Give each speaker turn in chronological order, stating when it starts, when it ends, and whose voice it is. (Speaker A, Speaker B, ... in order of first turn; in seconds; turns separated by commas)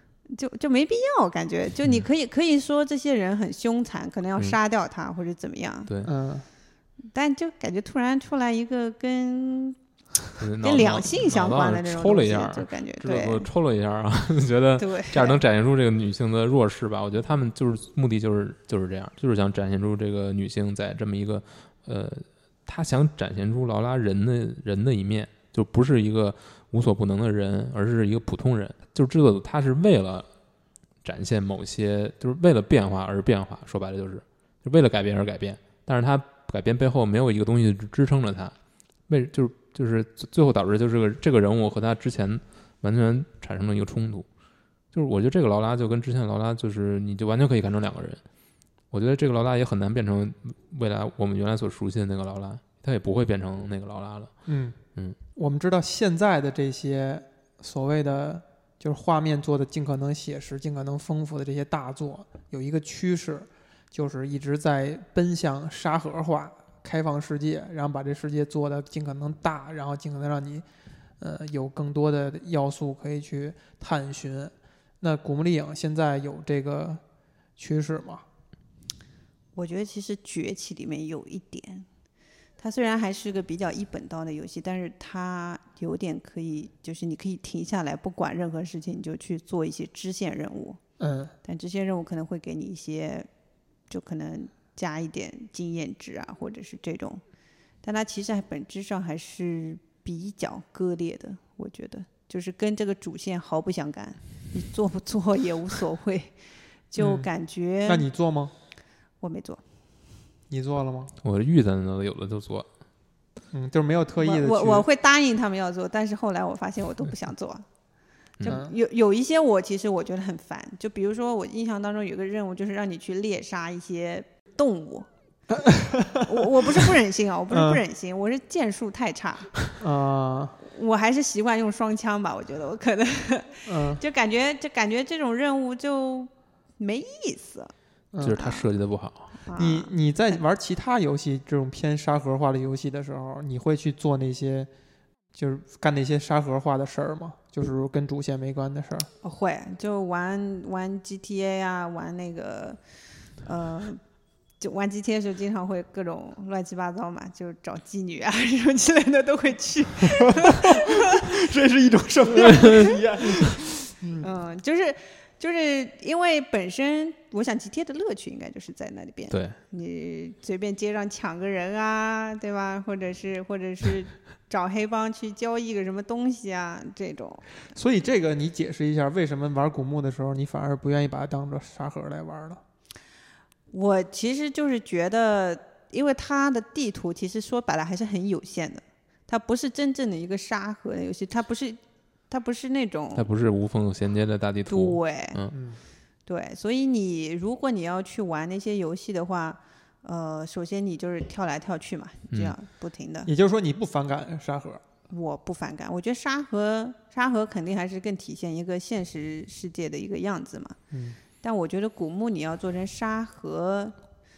Speaker A: 0.3-5.9, Speaker B: 5.9-6.1, Speaker C: 6.0-6.5, Speaker A: 7.1-9.8, Speaker B: 10.4-30.3, Speaker A: 10.6-13.5, Speaker A: 14.8-15.4, Speaker B: 31.0-38.5, Speaker B: 39.1-44.3, Speaker B: 44.9-48.2, Speaker B: 48.9-54.3, Speaker C: 54.5-54.8, Speaker C: 55.4-70.7, Speaker C: 71.2-77.0, Speaker C: 77.6-78.2, Speaker A: 79.5-81.9, Speaker A: 82.6-90.8, Speaker C: 91.0-91.3, Speaker A: 91.4-93.3, Speaker A: 93.9-97.2, Speaker A: 97.8-106.3, Speaker A: 106.9-108.1, Speaker C: 107.0-107.3, Speaker C: 107.9-108.5, Speaker A: 109.2-109.6, Speaker C: 110.5-111.1, Speaker B: 111.2-112.7, Speaker C: 113.5-114.9, Speaker A: 114.2-117.7, Speaker A: 118.4-125.1, Speaker C: 118.5-118.8, Speaker C: 125.5-126.5, Speaker A: 126.2-129.5, Speaker C: 127.5-127.8, Speaker C: 129.8-130.6, Speaker A: 130.6-137.7, Speaker C: 133.7-134.0, Speaker C: 138.1-138.4, Speaker B: 138.2-139.4, Speaker A: 138.3-138.7, Speaker A: 139.4-139.9, Speaker C: 139.6-144.7, Speaker C: 145.3-149.1, Speaker A: 149.2-152.8, Speaker A: 153.4-154.0, Speaker A: 154.6-161.4, Speaker C: 160.3-164.3, Speaker A: 162.4-163.0, Speaker B: 162.5-162.9, Speaker A: 164.2-177.4, Speaker B: 169.3-169.6, Speaker C: 177.7-182.6, Speaker A: 183.7-193.3, Speaker B: 193.2-195.6, Speaker A: 194.7-195.4, Speaker C: 195.5-195.8, Speaker A: 196.3-203.3, Speaker C: 203.3-204.8, Speaker A: 205.1-210.8, Speaker C: 210.9-211.2, Speaker A: 211.4-214.0